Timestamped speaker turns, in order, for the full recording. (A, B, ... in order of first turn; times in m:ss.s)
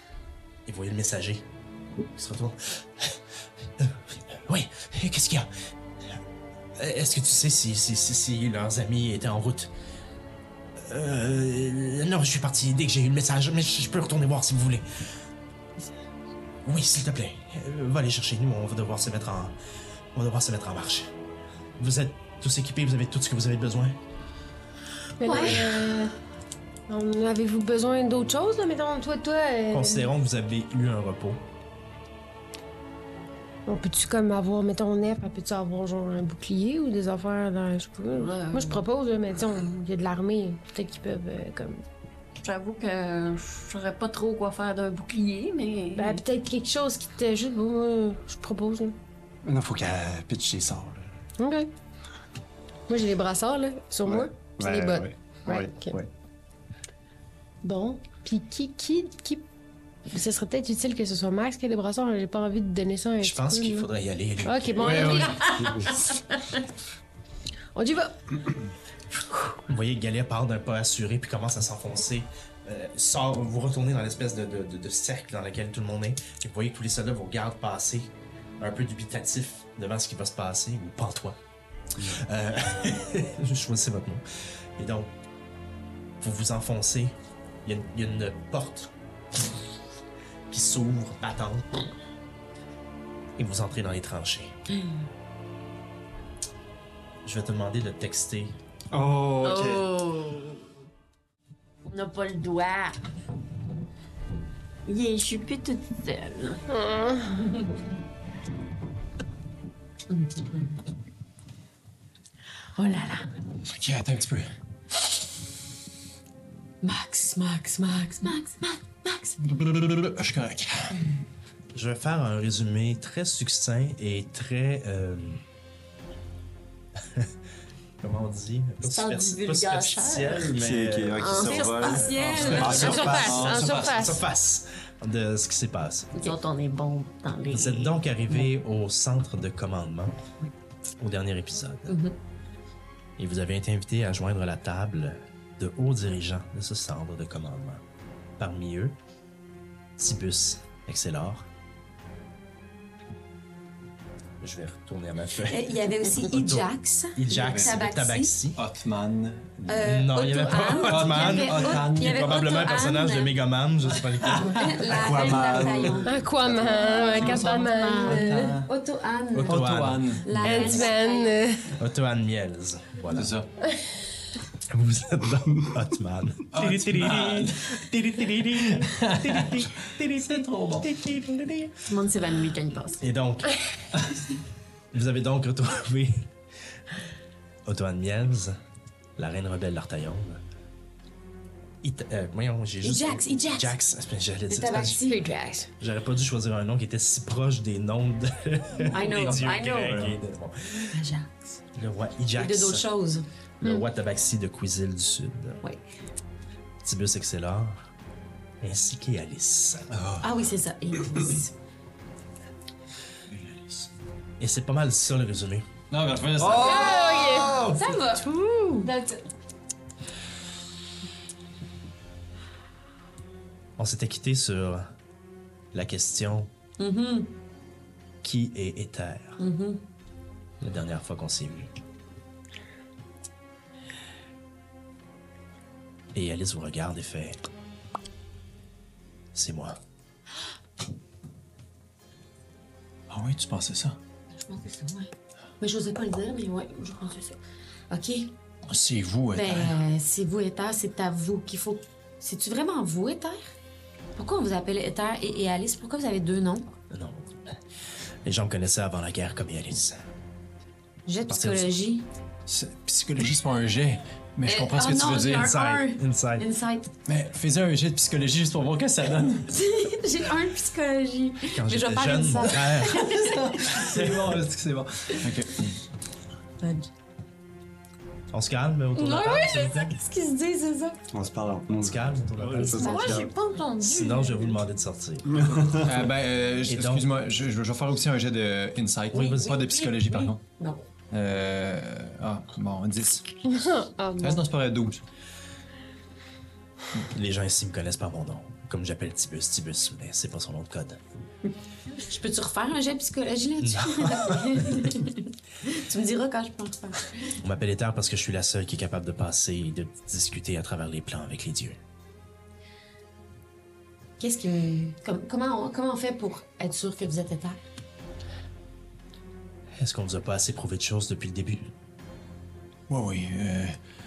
0:00.6-0:01.5 A
0:02.2-0:03.2 A
0:03.8-0:05.5 A
0:06.8-0:09.7 A
0:10.8-0:14.9 A
0:16.6-0:19.6 A
0:20.1-0:21.1 A
0:21.8-0:24.0 A
0:25.2-0:26.1 B
0:25.2-0:25.6 C
0:26.9-0:30.1 B
0:29.7-0:31.4 A
0:33.7-0:41.8 B
0:38.1-0:38.8 D
0:42.4-0:46.2 D
0:45.9-0:49.0 B
0:49.4-0:51.1 E
0:51.4-0:51.7 B
0:52.9-0:56.0 B
0:54.0-0:56.1 E
0:57.6-0:59.4 B
1:00.1-1:03.9 B
1:03.2-1:05.3 A
1:04.4-1:05.9 B
1:04.9-1:05.6 F
1:05.6-1:05.9 E
1:07.7-1:08.2 B
1:09.7-1:21.4 A
1:22.0-1:24.2 A
1:24.8-1:25.1 A
1:26.2-1:28.9 A
1:30.5-1:31.8 A
1:33.4-1:34.6 A
1:37.2-1:38.6 A
1:38.9-1:39.8 E
1:39.4-1:40.5 D
1:41.9-1:42.9 D
1:44.8-1:46.6 D
1:46.7-1:47.5 B
1:50.1-1:50.7 C
1:52.8-1:53.3 C
1:53.7-1:54.5 F
1:56.8-1:59.5 C
1:59.4-2:01.0 F
2:01.7-2:05.4 A
2:08.0-2:16.3 A
2:08.8-2:10.5 D
2:10.5-2:13.3 E
2:11.2-2:13.5 C
2:11.2-2:12.8 D
2:12.2-2:14.1 F
2:12.7-2:14.2 B
2:16.1-2:17.9 D
2:17.5-2:20.2 A
2:21.0-2:22.0 A
2:23.2-2:27.8 A
2:28.4-2:29.0 A
2:30.0-2:31.5 A
2:34.4-2:38.6 A
2:35.4-2:38.4 C
2:37.3-2:37.8 F
2:38.5-2:39.7 F
2:39.7-2:43.3 C
2:39.7-2:45.3 A
2:40.8-2:42.4 F
2:44.2-2:45.9 F
2:44.4-2:46.1 C
2:45.0-2:46.1 E
2:46.0-2:48.3 B
2:46.5-2:48.7 F
2:46.8-2:51.3 C
2:49.3-2:50.6 A
2:49.4-2:50.8 F
2:50.4-2:51.8 B
2:51.7-2:53.3 A
2:53.1-2:53.5 F
2:54.7-3:01.7 A
2:56.5-2:57.8 F
2:58.7-3:01.0 F
3:01.9-3:03.0 D
3:03.0-3:03.6 A
3:04.9-3:06.3 A
3:07.6-3:08.6 A
3:09.2-3:10.4 A
3:11.8-3:15.1 A
3:12.8-3:13.7 C
3:14.5-3:15.7 C
3:15.8-3:20.9 A
3:18.9-3:20.0 C
3:19.3-3:19.8 D
3:20.9-3:21.6 C
3:21.7-3:22.9 A
3:22.4-3:23.8 C
3:23.6-3:25.6 A
3:26.8-3:27.9 A
3:28.6-3:30.0 A
3:29.9-3:30.4 F
3:30.2-3:31.6 C
3:33.3-3:33.9 F
3:34.4-3:35.7 A
3:35.9-3:37.2 F
3:36.4-3:37.8 E
3:36.6-3:37.6 B
3:36.6-3:39.0 C
3:38.8-3:39.1 B
3:43.8-3:44.9 A
3:45.7-3:46.5 A
3:46.8-3:47.3 C
3:48.2-3:49.4 A
3:49.4-3:49.8 C
3:50.6-3:51.7 A
3:56.1-3:57.4 A
3:59.3-3:59.8 A
4:03.1-4:04.0 F
4:04.4-4:07.4 C
4:07.9-4:08.3 C
4:08.7-4:09.8 F
4:09.3-4:13.5 C
4:14.2-4:16.7 C
4:16.9-4:17.6 A
4:18.2-4:20.0 A
4:21.0-4:22.1 C
4:21.3-4:21.7 A
4:22.5-4:25.6 F
4:24.4-4:26.9 C
4:25.3-4:26.5 A
4:27.1-4:29.5 F
4:29.5-4:33.9 C
4:31.5-4:33.2 A
4:33.2-4:35.8 F
4:33.8-4:34.4 A
4:36.6-4:36.9 C
4:38.3-4:40.0 A
4:39.0-4:41.0 C
4:41.1-4:43.3 E
4:41.7-4:43.2 A
4:42.6-4:43.7 C
4:42.8-4:44.5 D
4:43.8-4:45.6 A
4:45.3-4:46.1 E
4:45.8-4:50.4 F
4:46.6-4:47.1 A
4:49.1-4:49.6 A
4:49.1-4:50.8 C
4:51.1-4:53.2 F
4:53.5-4:54.4 B
4:54.2-4:55.0 F
4:57.0-5:01.0 A
5:01.9-5:07.3 C
5:03.6-5:04.8 A
5:07.4-5:11.8 A
5:14.2-5:17.6 C
5:19.8-5:21.7 A
5:22.9-5:23.8 F